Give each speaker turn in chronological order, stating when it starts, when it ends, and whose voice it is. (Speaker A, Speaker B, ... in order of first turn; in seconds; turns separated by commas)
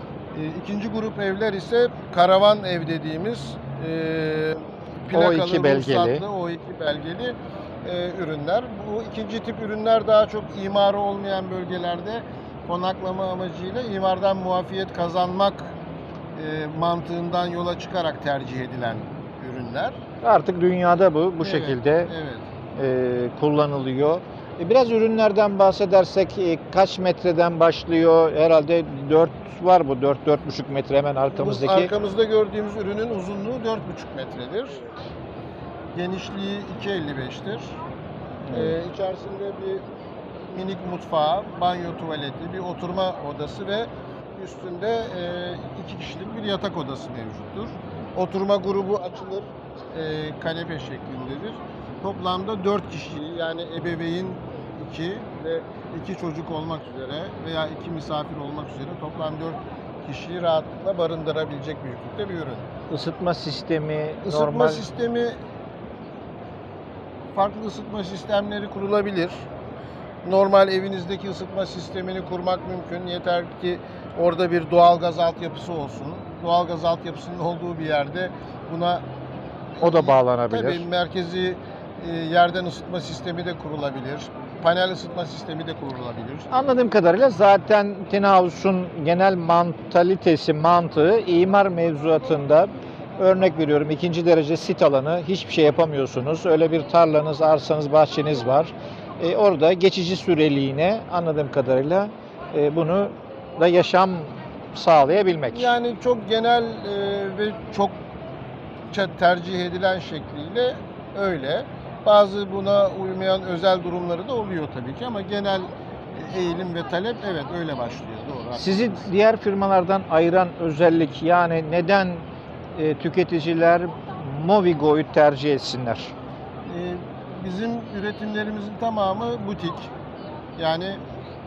Speaker A: 0.3-15.7, Speaker B: 5.1-6.2, Speaker A: 16.4-20.0, Speaker B: 20.2-22.1, Speaker A: 21.4-22.5, Speaker B: 22.8-31.9, Speaker A: 31.3-34.9, Speaker A: 35.9-37.8, Speaker B: 38.5-38.8, Speaker A: 38.5-39.8, Speaker A: 40.5-62.7, Speaker B: 62.9-64.9, Speaker A: 64.3-65.4, Speaker A: 67.3-69.5, Speaker A: 70.2-79.1, Speaker A: 79.8-86.6, Speaker B: 79.8-80.8, Speaker B: 86.5-105.7, Speaker A: 105.4-108.0, Speaker A: 108.9-119.1, Speaker B: 118.6-126.1, Speaker A: 126.7-129.9, Speaker A: 130.6-131.0